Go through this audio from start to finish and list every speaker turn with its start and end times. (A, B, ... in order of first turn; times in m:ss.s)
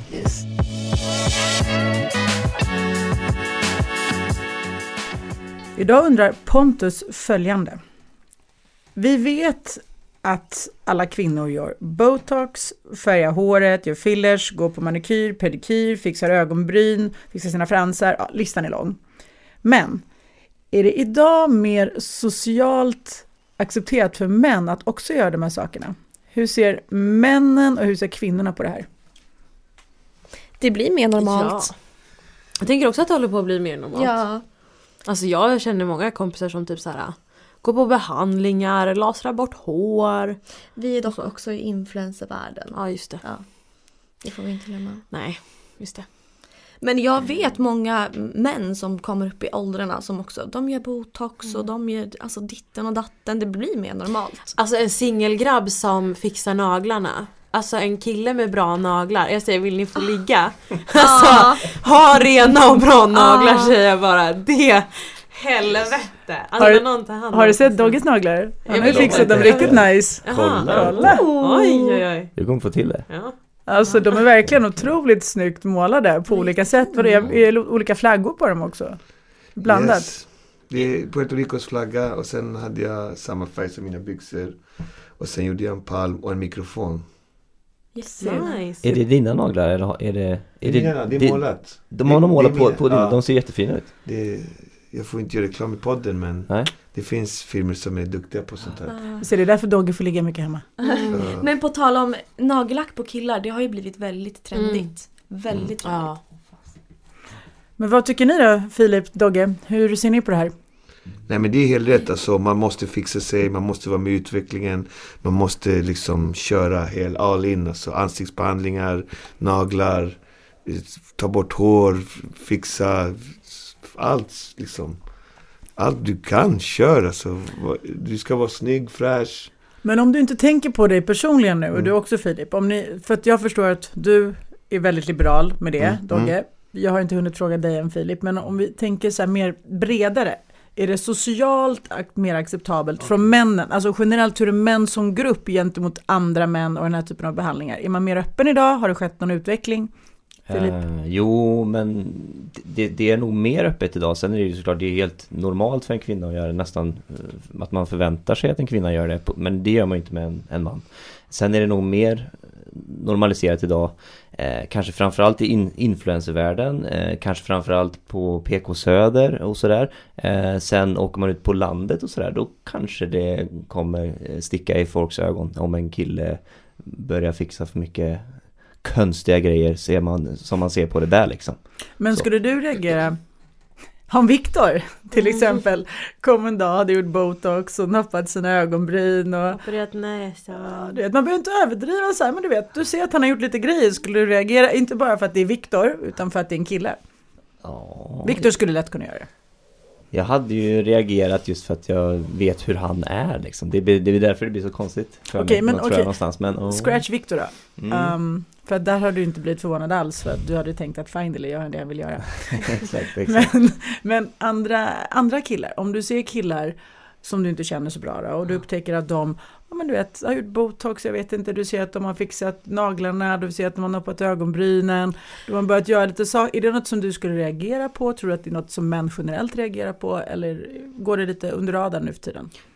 0:05.8-0:07.8 A
0:09.0-0:19.0 A
0:19.6-0:20.0 A
0:20.7-0:28.9 A
0:30.6-0:31.7 B
0:31.2-0:31.8 C
0:32.6-0:40.4 C
0:33.9-0:34.4 B
0:40.7-0:45.0 B
0:41.0-0:41.3 C
0:42.7-0:43.2 C
0:45.1-0:46.1 C
0:46.8-0:54.5 B
0:47.2-0:47.5 C
0:54.5-1:08.0 C
1:01.0-1:01.7 B
1:03.1-1:03.7 B
1:06.6-1:11.8 A
1:08.6-1:14.2 C
1:08.7-1:11.2 D
1:12.3-1:13.6 D
1:13.6-1:20.2 A
1:16.3-1:17.2 B
1:19.6-1:27.0 E
1:27.9-1:28.7 B
1:28.2-1:28.5 A
1:28.3-1:28.9 C
1:28.8-1:33.9 D
1:30.6-1:39.0 E
1:36.5-1:36.7 D
1:38.9-1:39.2 B
1:39.2-1:40.6 A
1:40.8-1:46.3 B
1:40.8-1:41.2 C
1:41.1-1:41.5 E
1:44.5-1:45.3 C
1:45.8-1:46.2 C
1:47.8-1:50.5 A
1:51.2-2:05.0 E
2:05.7-2:09.5 E
2:09.8-2:29.9 A
2:15.8-2:16.3 E
2:30.5-3:02.3 D
2:30.5-2:30.8 A
3:02.0-3:03.2 A
3:04.1-3:09.6 A
3:09.5-3:11.0 C
3:10.5-3:17.0 A
3:17.6-3:18.4 D
3:18.2-3:19.3 A
3:20.1-3:27.2 D
3:25.3-3:52.5 A
3:27.8-3:28.2 D
3:32.7-3:33.5 D